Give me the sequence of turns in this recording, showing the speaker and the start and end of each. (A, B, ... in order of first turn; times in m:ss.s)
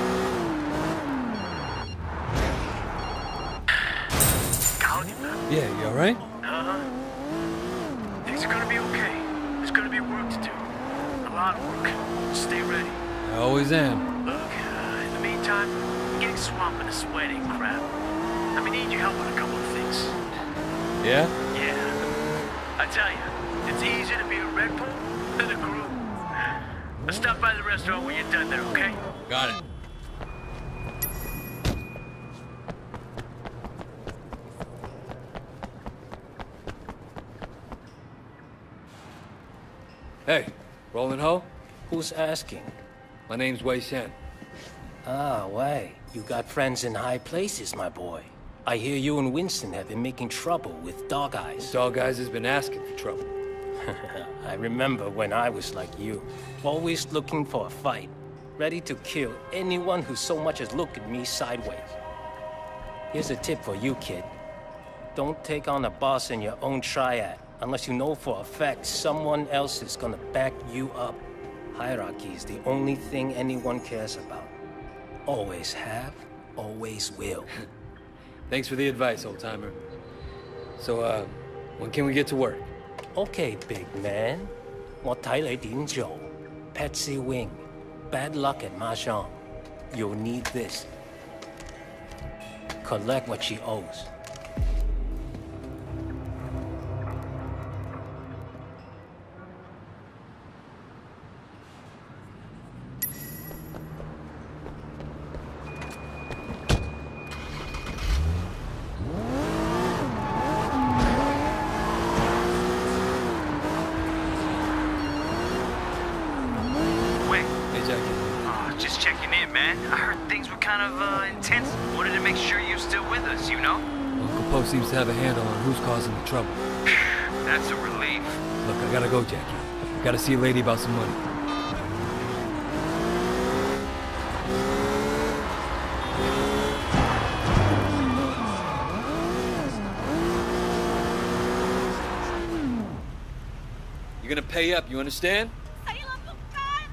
0:04.8-0:05.3 A
0:05.5-0:06.2 B
0:06.4-0:06.7 A
0:08.3-0:10.6 A
0:11.2-0:12.7 A
0:13.2-0:14.1 B
0:14.3-0:17.8 A
0:18.6-0:20.2 A
0:21.0-0:21.3 B
0:22.9-0:26.0 A
0:27.2-0:28.9 A
0:29.3-0:29.6 B
0:40.2-0:41.5 B
0:41.9-0:42.8 C
0:43.3-0:44.2 B
0:45.0-0:51.8 C
0:51.6-0:53.2 B
0:53.8-1:02.0 C
1:03.1-1:04.3 C
1:05.1-1:14.5 C
1:15.2-1:17.5 C
1:18.5-1:19.8 B
1:20.8-1:22.6 B
1:23.1-1:29.4 C
1:29.9-1:30.9 C
1:32.8-1:34.1 C
1:57.2-1:57.5 D
1:57.7-1:58.4 B
1:58.4-2:03.8 D
2:04.2-2:06.6 B
2:07.4-2:08.4 D
2:08.6-2:11.2 B
2:24.2-2:25.5 B